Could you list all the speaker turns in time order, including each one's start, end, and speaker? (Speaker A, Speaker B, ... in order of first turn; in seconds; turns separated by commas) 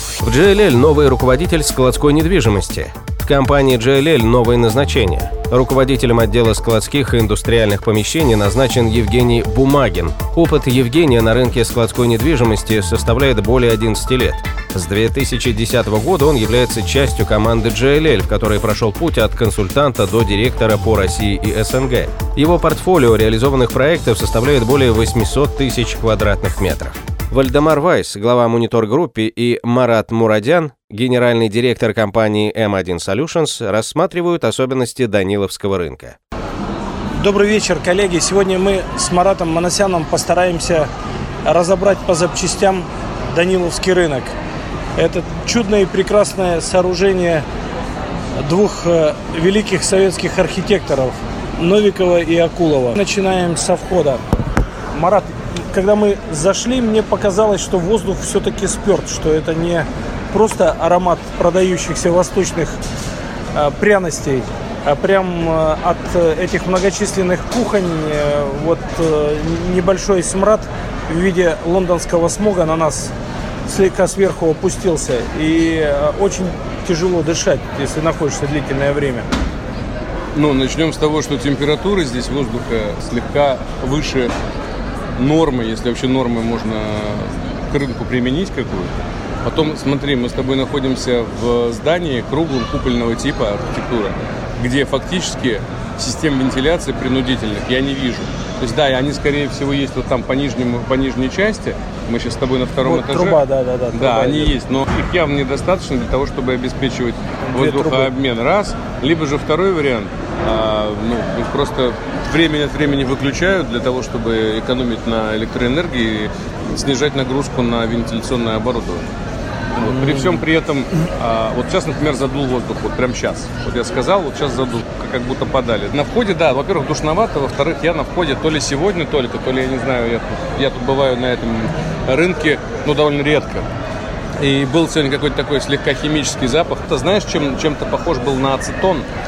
Speaker A: 0.2-36.2, Speaker B: 37.2-40.9, Speaker B: 41.4-44.3, Speaker B: 45.0-47.4, Speaker B: 48.4-54.2, Speaker B: 54.9-62.8, Speaker B: 63.5-73.1, Speaker B: 73.7-79.3, Speaker C: 80.3-84.3, Speaker C: 85.2-88.9, Speaker C: 89.4-103.4, Speaker B: 102.8-104.5, Speaker C: 103.9-119.0, Speaker B: 107.4-108.1, Speaker C: 119.7-133.7, Speaker B: 119.9-120.4, Speaker C: 134.4-139.1